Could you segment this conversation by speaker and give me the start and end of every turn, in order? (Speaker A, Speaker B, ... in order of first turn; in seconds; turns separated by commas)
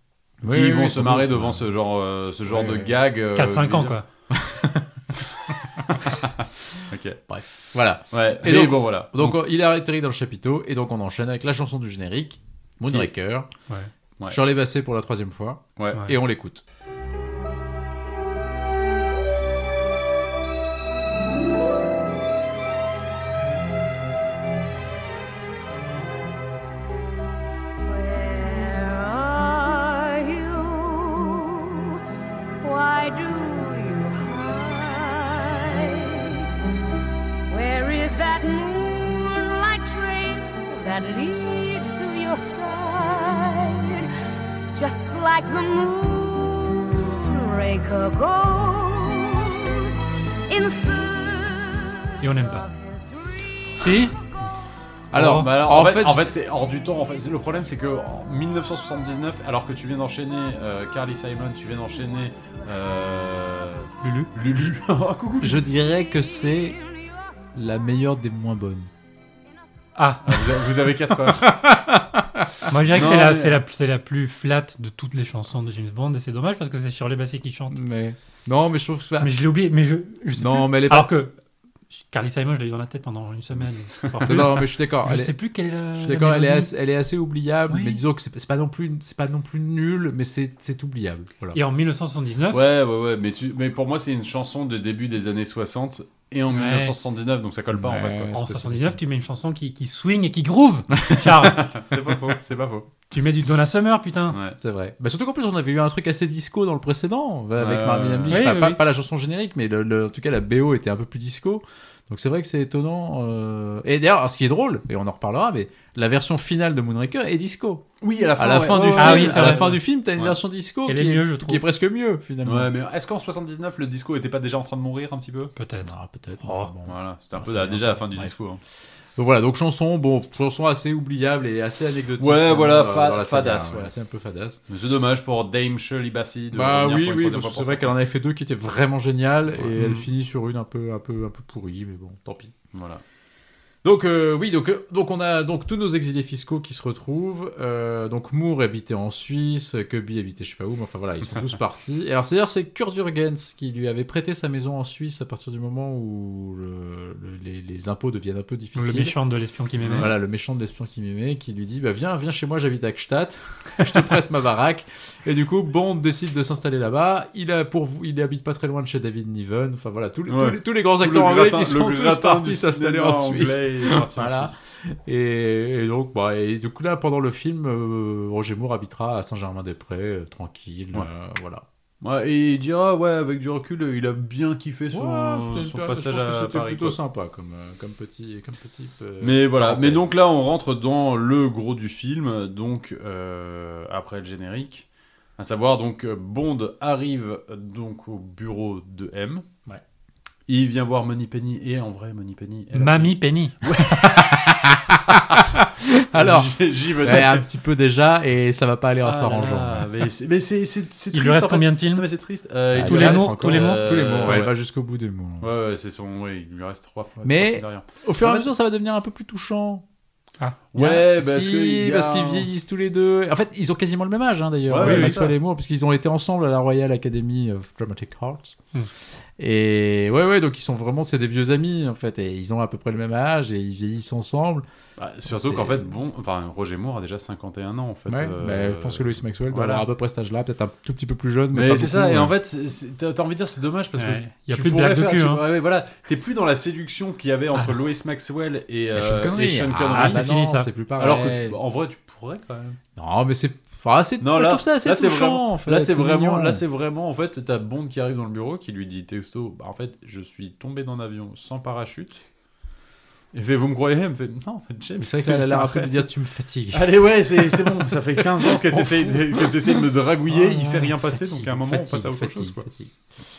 Speaker A: 0.4-1.7, Speaker B: 0.4-4.0, Speaker A: 2.5-2.9, Speaker C: 3.3-4.0, Speaker A: 4.3-4.9, Speaker B: 5.9-7.2, Speaker A: 7.3-13.5, Speaker B: 8.1-9.4, Speaker B: 12.8-13.1, Speaker A: 14.3-16.6, Speaker B: 15.8-16.0, Speaker D: 27.8-32.0, Speaker D: 32.6-36.5, Speaker D: 37.5-44.1, Speaker D: 44.7-53.4, Speaker C: 52.2-52.7, Speaker C: 53.8-54.2, Speaker A: 55.1-56.3, Speaker B: 55.1-65.7, Speaker C: 64.0-64.3, Speaker A: 65.4-66.8, Speaker A: 67.5-68.9, Speaker C: 70.0-70.2, Speaker B: 70.2-71.5, Speaker A: 71.3-72.8, Speaker C: 72.7-77.8, Speaker B: 72.9-73.6, Speaker A: 77.7-79.3, Speaker C: 79.2-81.3, Speaker A: 80.3-81.1, Speaker C: 81.9-86.7, Speaker B: 84.0-84.5, Speaker A: 84.2-85.3, Speaker A: 85.9-91.6, Speaker C: 87.7-88.0, Speaker C: 91.5-92.6, Speaker B: 92.5-98.3, Speaker C: 96.5-97.0, Speaker A: 97.7-99.0, Speaker C: 98.3-101.7, Speaker B: 101.4-102.9, Speaker C: 103.1-104.4, Speaker B: 104.3-104.6, Speaker A: 104.6-117.8, Speaker B: 107.6-108.4, Speaker C: 108.3-108.8, Speaker B: 118.0-120.4, Speaker A: 118.4-122.7, Speaker C: 119.0-119.8, Speaker C: 120.9-121.6, Speaker B: 122.4-125.5, Speaker C: 125.6-125.9, Speaker A: 125.8-128.3, Speaker C: 126.4-126.7, Speaker B: 126.8-128.6, Speaker A: 129.2-134.6, Speaker B: 132.2-133.9, Speaker B: 134.7-137.9, Speaker A: 136.5-142.5, Speaker B: 139.5-140.1, Speaker B: 142.7-143.0, Speaker A: 143.8-159.2, Speaker C: 158.7-160.1, Speaker B: 159.8-160.1, Speaker A: 159.9-181.6, Speaker B: 170.3-174.6, Speaker B: 182.0-187.0, Speaker A: 184.9-190.1, Speaker B: 189.2-194.8, Speaker B: 195.4-199.4, Speaker B: 200.5-204.4, Speaker C: 202.7-203.6, Speaker A: 203.8-209.9, Speaker B: 206.1-207.4, Speaker B: 209.0-214.5, Speaker C: 211.1-212.1, Speaker A: 212.7-215.5, Speaker C: 212.8-214.4, Speaker B: 215.4-218.5, Speaker A: 217.2-219.8, Speaker B: 220.7-222.5, Speaker A: 220.7-228.6, Speaker B: 224.7-225.3, Speaker C: 224.8-225.1, Speaker A: 229.4-234.6, Speaker B: 235.0-239.8, Speaker A: 235.2-235.9, Speaker A: 238.1-242.3, Speaker B: 241.5-250.2, Speaker C: 244.0-245.4, Speaker A: 248.9-251.6, Speaker C: 249.9-250.7, Speaker B: 251.0-252.8, Speaker A: 252.9-256.6, Speaker B: 254.2-262.2, Speaker B: 263.3-266.1, Speaker A: 265.0-266.9, Speaker B: 266.7-272.7, Speaker A: 268.4-269.5, Speaker A: 270.3-272.9